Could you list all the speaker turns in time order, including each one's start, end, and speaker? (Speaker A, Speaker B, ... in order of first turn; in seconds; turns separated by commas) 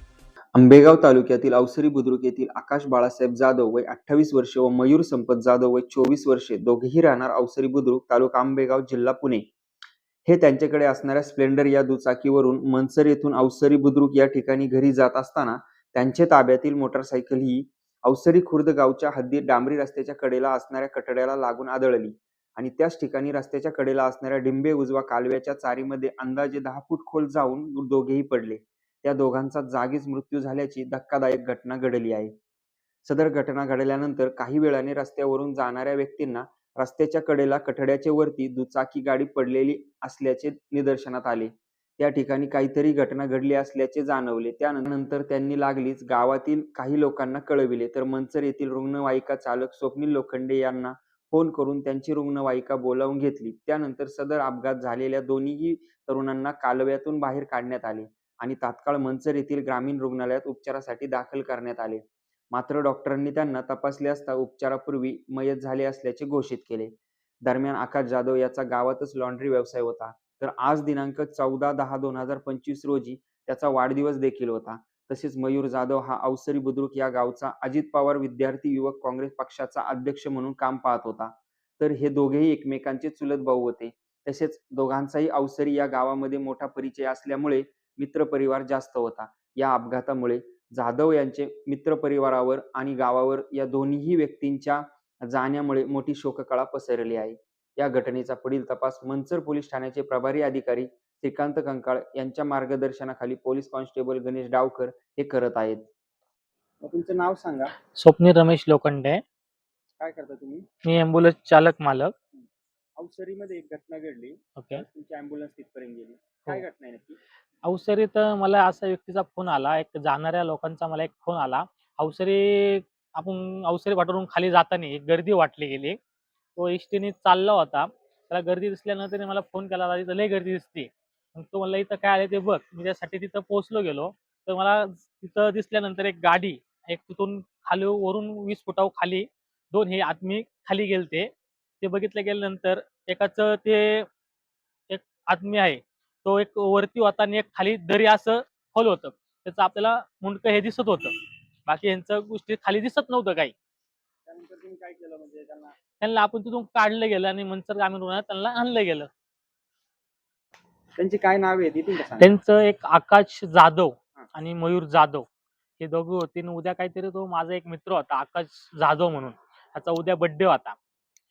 Speaker A: 0.6-9.4, Speaker A: 10.2-32.3, Speaker A: 33.0-66.9, Speaker A: 67.4-105.9, Speaker A: 106.8-107.7, Speaker B: 107.9-109.2, Speaker A: 110.0-110.6, Speaker B: 110.8-112.1, Speaker A: 113.0-117.2, Speaker B: 114.6-114.8, Speaker B: 117.7-126.0, Speaker B: 126.6-144.1, Speaker B: 144.9-151.1, Speaker B: 151.7-153.5, Speaker A: 154.2-155.8, Speaker B: 156.0-159.1, Speaker A: 161.0-162.3, Speaker B: 162.0-165.2, Speaker B: 165.8-170.8